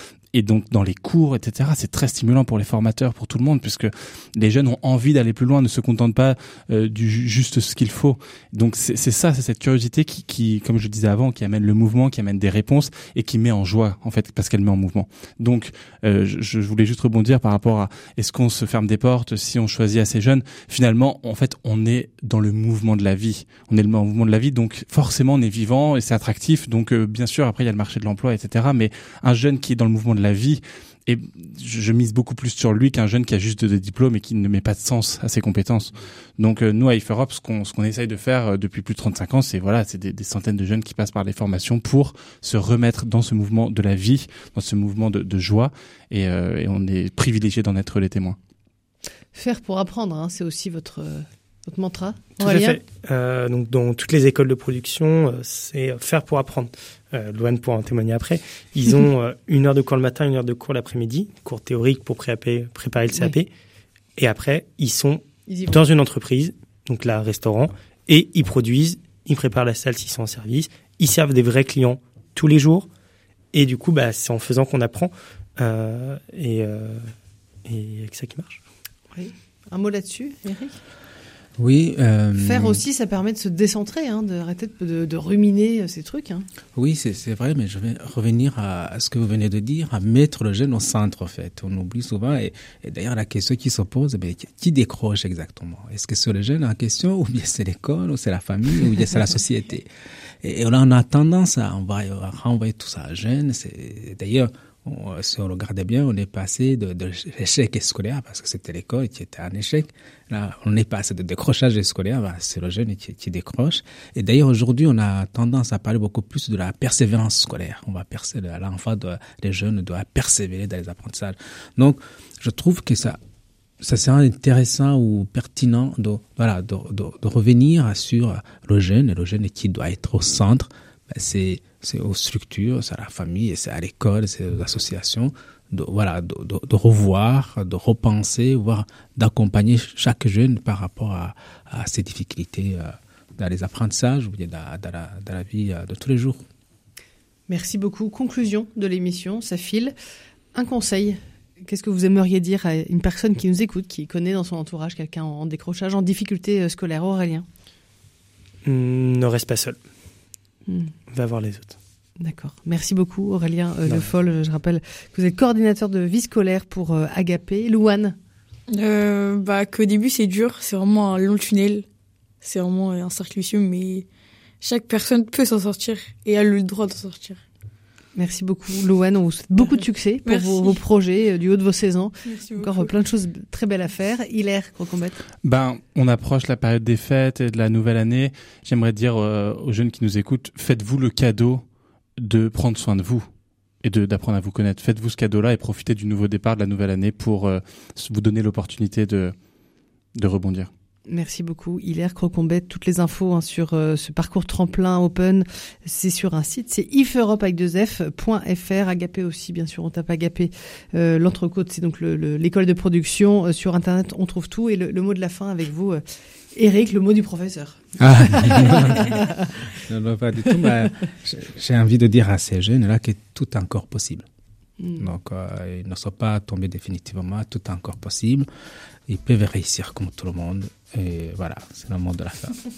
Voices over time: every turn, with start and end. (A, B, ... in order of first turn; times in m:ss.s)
0:00.3-0:48.4 A
0:49.3-0:52.8 B
0:52.4-1:03.5 C
1:04.2-1:12.9 C
1:05.5-1:05.8 B
1:13.5-1:17.1 C
1:17.6-1:18.6 C
1:19.1-1:20.8 B
1:21.6-1:22.8 D
1:22.4-1:26.5 B
1:26.8-1:39.9 D
1:40.4-2:03.2 D
2:03.8-2:26.4 D
2:27.5-2:29.9 B
2:30.5-2:37.5 B
2:38.6-2:39.8 C
2:40.7-2:40.9 B
2:41.1-2:41.8 C
2:42.2-2:48.2 B
2:48.7-2:51.8 E
2:52.4-2:54.1 E
2:54.6-2:57.4 E
2:58.2-3:05.2 B
2:59.8-3:00.8 E
3:02.3-3:02.9 E
3:05.4-3:11.6 A
3:12.2-3:13.3 A
3:13.8-3:19.4 A
3:20.2-3:20.7 A
3:21.1-3:36.0 B
3:36.5-3:39.8 B
3:38.0-3:44.3 D
3:44.8-3:45.1 B
3:45.0-3:48.5 D
3:49.1-3:52.6 D